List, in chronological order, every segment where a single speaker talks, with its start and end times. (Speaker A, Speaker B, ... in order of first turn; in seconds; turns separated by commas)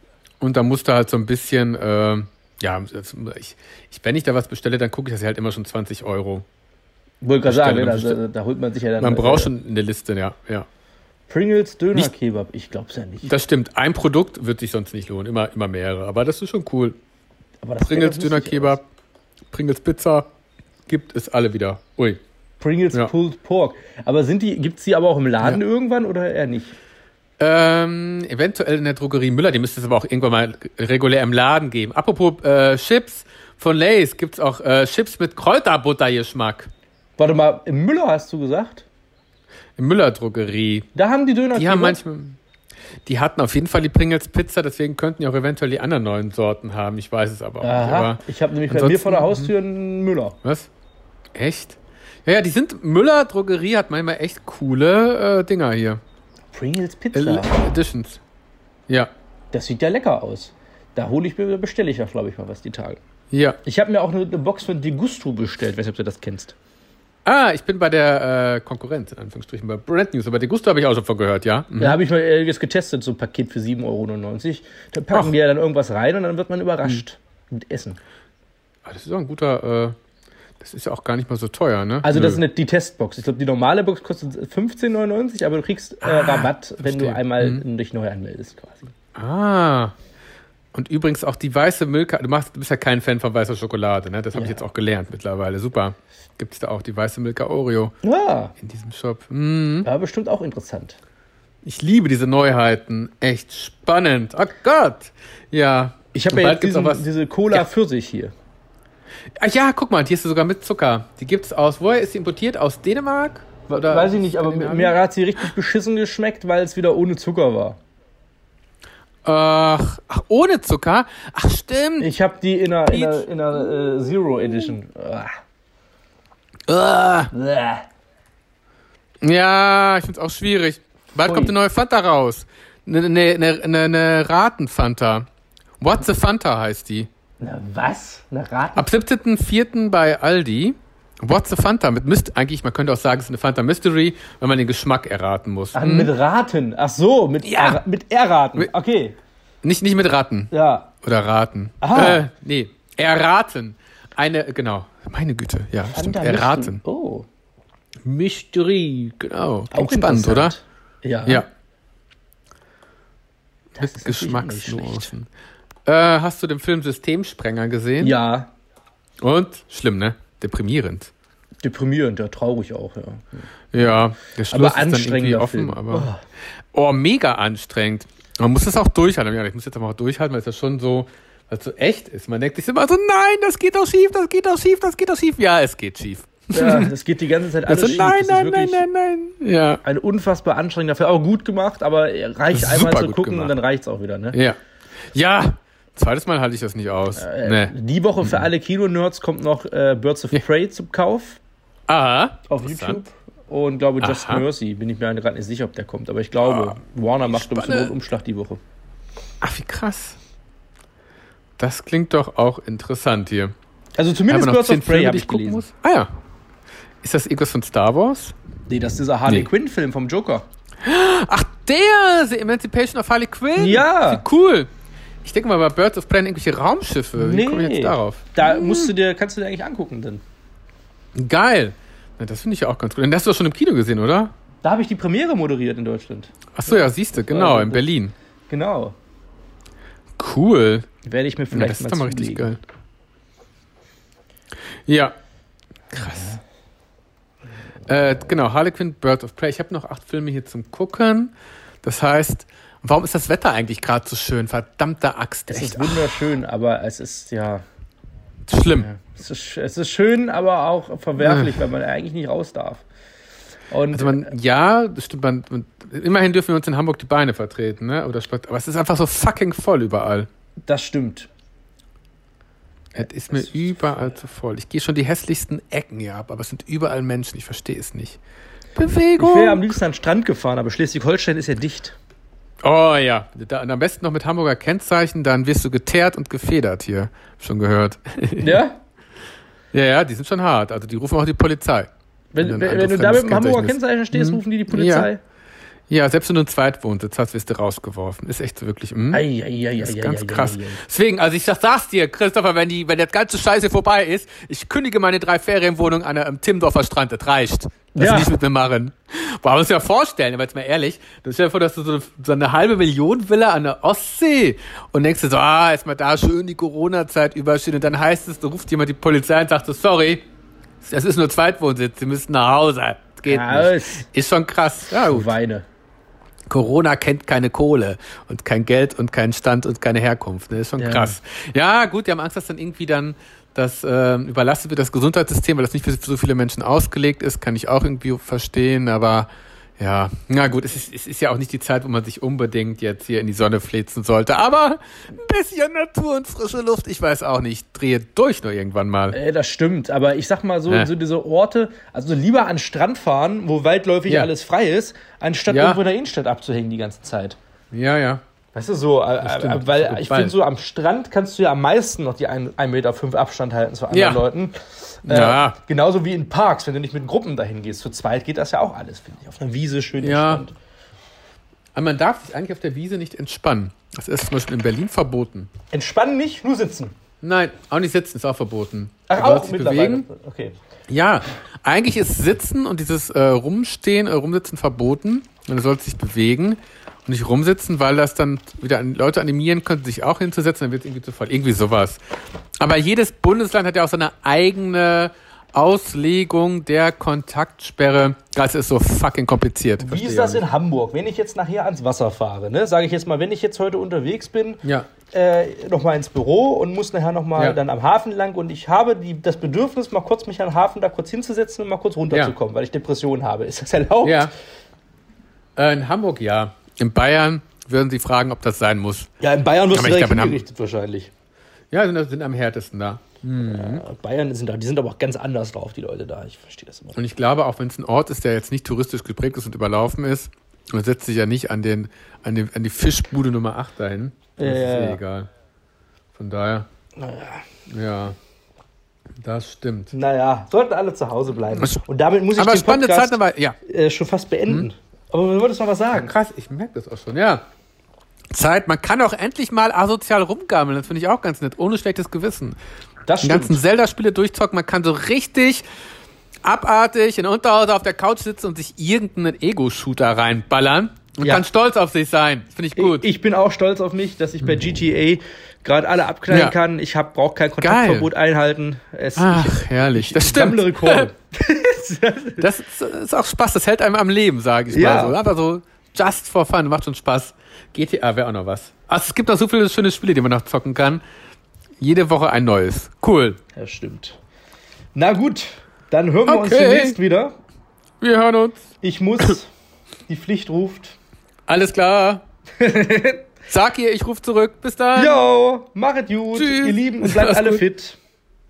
Speaker A: 0.4-6.5, Speaker B: 7.2-9.5, Speaker A: 7.5-8.2, Speaker A: 9.0-10.7, Speaker B: 11.3-13.4, Speaker A: 13.3-17.0, Speaker B: 17.6-18.8, Speaker A: 17.8-18.9, Speaker A: 19.5-20.3, Speaker A: 20.9-22.2, Speaker B: 22.6-26.8, Speaker A: 27.4-36.7, Speaker B: 37.2-38.9, Speaker A: 39.8-40.9, Speaker B: 41.0-42.0, Speaker A: 41.5-42.4, Speaker A: 43.1-49.5, Speaker B: 47.6-50.4, Speaker A: 50.4-50.7, Speaker A: 51.4-56.0, Speaker B: 56.5-57.6, Speaker A: 57.1-58.2, Speaker B: 59.5-63.0, Speaker A: 63.3-63.6, Speaker B: 63.6-66.5, Speaker A: 67.3-72.0, Speaker B: 71.8-78.0, Speaker A: 78.9-80.0, Speaker A: 80.6-82.4, Speaker B: 82.0-88.9, Speaker A: 86.0-87.6, Speaker A: 89.2-90.0, Speaker A: 90.7-97.9, Speaker B: 94.3-94.6, Speaker B: 98.0-98.5, Speaker A: 98.6-99.9, Speaker B: 99.8-101.0, Speaker A: 101.6-107.7, Speaker B: 106.1-108.3, Speaker A: 109.4-115.0, Speaker B: 113.7-117.8, Speaker A: 119.2-122.1, Speaker B: 122.0-125.3, Speaker A: 122.9-123.2, Speaker A: 126.7-127.3, Speaker B: 127.3-127.9, Speaker A: 129.2-135.3, Speaker B: 131.2-131.5, Speaker A: 135.8-137.1, Speaker B: 137.4-138.9, Speaker A: 138.8-146.1, Speaker B: 145.7-149.2, Speaker A: 147.4-147.8, Speaker A: 149.6-156.8, Speaker B: 150.5-150.9, Speaker B: 151.8-152.2, Speaker B: 155.9-157.3, Speaker A: 158.1-160.6, Speaker B: 159.7-161.4, Speaker B: 163.8-165.1, Speaker A: 163.8-165.3, Speaker A: 165.9-168.2, Speaker B: 168.0-168.5, Speaker A: 169.2-171.1, Speaker B: 171.6-176.2, Speaker A: 173.7-176.1, Speaker A: 176.7-186.9, Speaker B: 186.5-188.8, Speaker A: 187.7-189.8, Speaker B: 189.8-194.4, Speaker A: 192.5-193.5, Speaker A: 194.3-194.6, Speaker A: 195.1-198.5, Speaker B: 197.2-201.4, Speaker A: 201.9-203.0, Speaker B: 202.5-208.6, Speaker A: 204.0-204.4, Speaker A: 206.4-206.8, Speaker A: 207.3-207.9, Speaker A: 209.4-210.2, Speaker A: 211.6-213.5, Speaker B: 214.0-215.7, Speaker A: 214.3-216.1, Speaker A: 217.0-218.3, Speaker B: 218.7-220.5, Speaker A: 220.8-224.7, Speaker B: 223.6-224.2, Speaker A: 225.2-228.9, Speaker B: 227.2-230.2, Speaker A: 231.2-234.3, Speaker B: 234.6-237.9, Speaker A: 236.5-238.1, Speaker B: 238.5-238.9, Speaker A: 240.2-240.9, Speaker B: 241.0-242.5, Speaker A: 241.5-242.6, Speaker A: 244.9-245.2, Speaker A: 245.9-246.4, Speaker A: 247.9-256.3, Speaker B: 255.5-257.6, Speaker A: 258.5-258.9, Speaker B: 258.7-262.9, Speaker A: 261.2-261.6, Speaker B: 263.7-264.3, Speaker A: 263.9-270.3, Speaker B: 270.6-271.3, Speaker A: 272.9-278.2, Speaker B: 273.3-273.8, Speaker A: 278.8-279.7, Speaker B: 279.2-282.0, Speaker A: 282.6-288.6, Speaker B: 288.4-288.8, Speaker A: 289.7-295.1, Speaker B: 292.3-295.2, Speaker A: 295.9-299.2, Speaker B: 299.1-300.8, Speaker A: 299.8-320.2, Speaker B: 307.9-308.3, Speaker A: 320.8-325.3, Speaker B: 323.3-324.1, Speaker B: 324.9-325.7, Speaker A: 326.5-349.2, Speaker B: 330.8-331.1, Speaker B: 349.1-357.4, Speaker A: 355.5-355.8, Speaker A: 357.7-358.2, Speaker B: 358.5-370.6, Speaker A: 359.2-360.4, Speaker A: 363.9-364.2, Speaker A: 365.1-365.6, Speaker A: 370.0-370.4, Speaker A: 371.8-375.5, Speaker B: 375.7-376.9, Speaker A: 377.2-380.1, Speaker B: 379.1-380.6, Speaker A: 380.9-392.0, Speaker A: 392.6-400.4, Speaker B: 399.8-414.3, Speaker A: 404.6-404.9, Speaker A: 414.0-414.3, Speaker A: 415.6-419.1, Speaker B: 419.2-421.1, Speaker A: 419.7-420.4, Speaker A: 421.7-423.8, Speaker B: 423.5-427.0, Speaker A: 426.9-435.3, Speaker B: 434.4-435.0, Speaker A: 436.2-436.7, Speaker B: 437.0-437.4, Speaker A: 437.7-438.2, Speaker A: 439.2-439.9, Speaker B: 439.9-446.1, Speaker A: 441.6-441.8, Speaker A: 442.4-443.6, Speaker A: 445.9-447.4, Speaker A: 448.3-452.6, Speaker B: 453.1-453.6, Speaker A: 453.2-455.6, Speaker A: 456.4-463.1, Speaker B: 462.8-472.5, Speaker A: 466.3-466.6, Speaker A: 467.6-468.1, Speaker A: 469.2-471.1, Speaker A: 472.4-481.0, Speaker B: 474.7-475.2, Speaker A: 481.8-483.4, Speaker B: 483.6-484.2, Speaker B: 484.9-487.3, Speaker A: 486.3-487.0, Speaker A: 488.0-488.7, Speaker B: 488.8-489.5, Speaker B: 490.1-491.0, Speaker A: 491.5-492.2, Speaker B: 492.6-493.2, Speaker A: 493.5-495.2, Speaker B: 494.9-498.0, Speaker A: 496.4-497.6